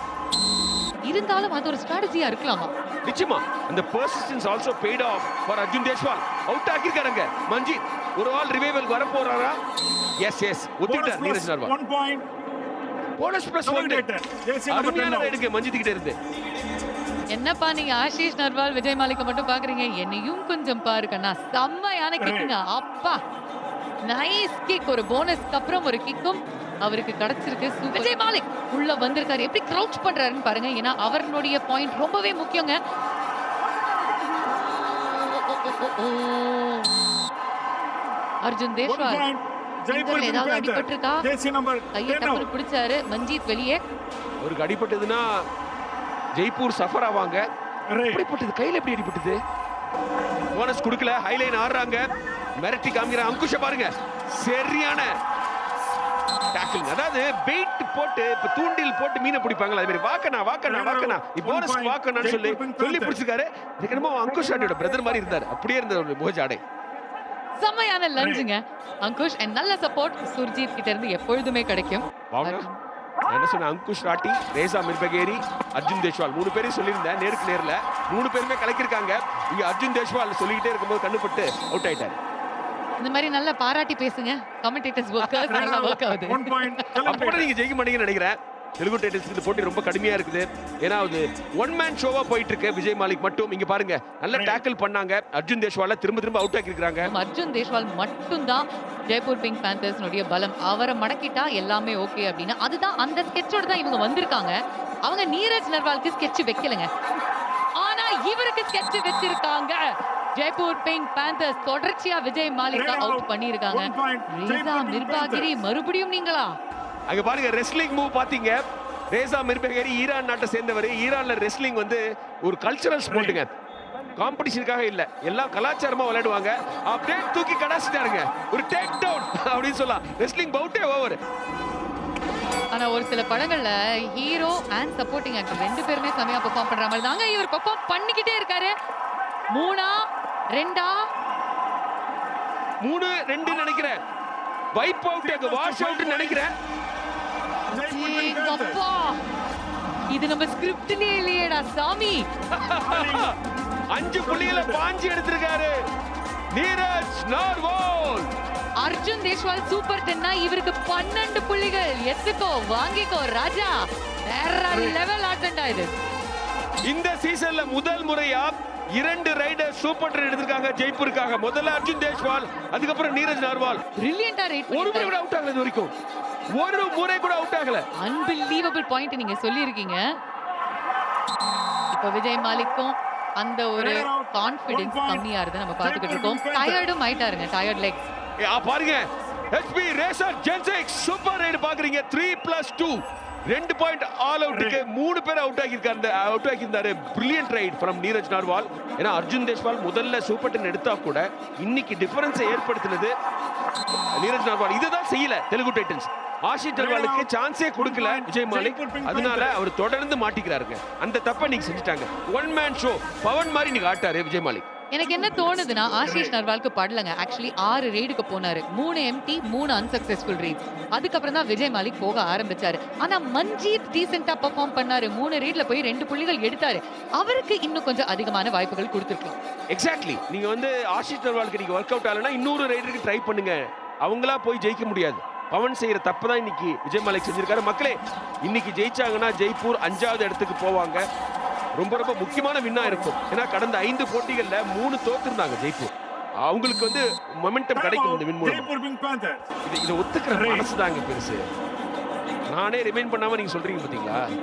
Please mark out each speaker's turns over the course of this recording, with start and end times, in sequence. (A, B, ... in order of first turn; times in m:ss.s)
0:01.1-0:02.7 A
0:03.0-0:09.6 B
0:10.2-0:11.7 B
0:10.8-0:12.2 C
0:13.2-0:14.1 B
0:13.6-0:15.4 C
0:14.7-0:16.2 B
0:17.3-0:23.2 A
0:22.2-0:22.5 C
0:24.1-0:32.8 A
0:34.8-0:37.0 A
0:38.4-0:39.3 A
0:38.9-0:42.5 C
0:39.9-0:41.3 A
0:41.9-0:43.8 A
0:44.4-0:45.2 B
0:46.4-0:47.4 B
0:47.9-0:48.2 C
0:48.1-0:49.4 B
0:50.5-0:52.0 B
0:52.6-0:55.1 B
0:56.5-1:06.6 B
1:00.6-1:03.2 C
1:07.6-1:12.8 A
1:08.2-1:08.5 C
1:12.3-1:12.7 B
1:13.3-1:22.2 B
1:23.0-1:26.8 A
1:25.5-1:27.5 C
1:27.0-1:37.1 B
1:34.3-1:34.6 C
1:37.1-1:46.9 A
1:47.8-1:56.6 A
1:52.7-1:55.5 C
1:57.1-2:03.5 B
2:03.1-2:03.4 C
2:04.2-2:11.2 B
2:12.7-2:18.7 A
2:19.5-2:21.1 A
2:22.8-2:24.0 B
2:24.7-2:26.5 B
2:25.2-2:26.4 C
2:27.7-2:28.8 C
2:27.7-2:29.2 A
2:30.1-2:32.3 A
2:32.5-2:33.3 B
2:32.8-2:33.4 C
2:33.9-2:35.7 B
2:34.2-2:34.8 C
2:36.5-2:38.3 B
2:38.8-2:46.0 A
2:44.7-2:45.0 C
2:46.9-2:53.8 B
2:54.0-2:55.1 A
2:54.7-2:55.9 B
2:56.6-2:57.8 B
2:58.0-3:00.0 A
3:01.9-3:08.0 A
3:03.8-3:05.2 C
3:05.8-3:06.8 C
3:08.4-3:23.1 B
3:14.5-3:14.8 C
3:24.2-3:34.6 B
3:26.8-3:29.6 C
3:34.9-3:49.4 A
3:35.0-3:36.3 C
3:49.7-4:01.0 B
4:01.8-4:08.7 B
4:02.8-4:03.1 C
4:07.7-4:09.5 C
4:09.6-4:11.4 B
4:10.3-4:10.7 C
4:12.5-4:14.2 B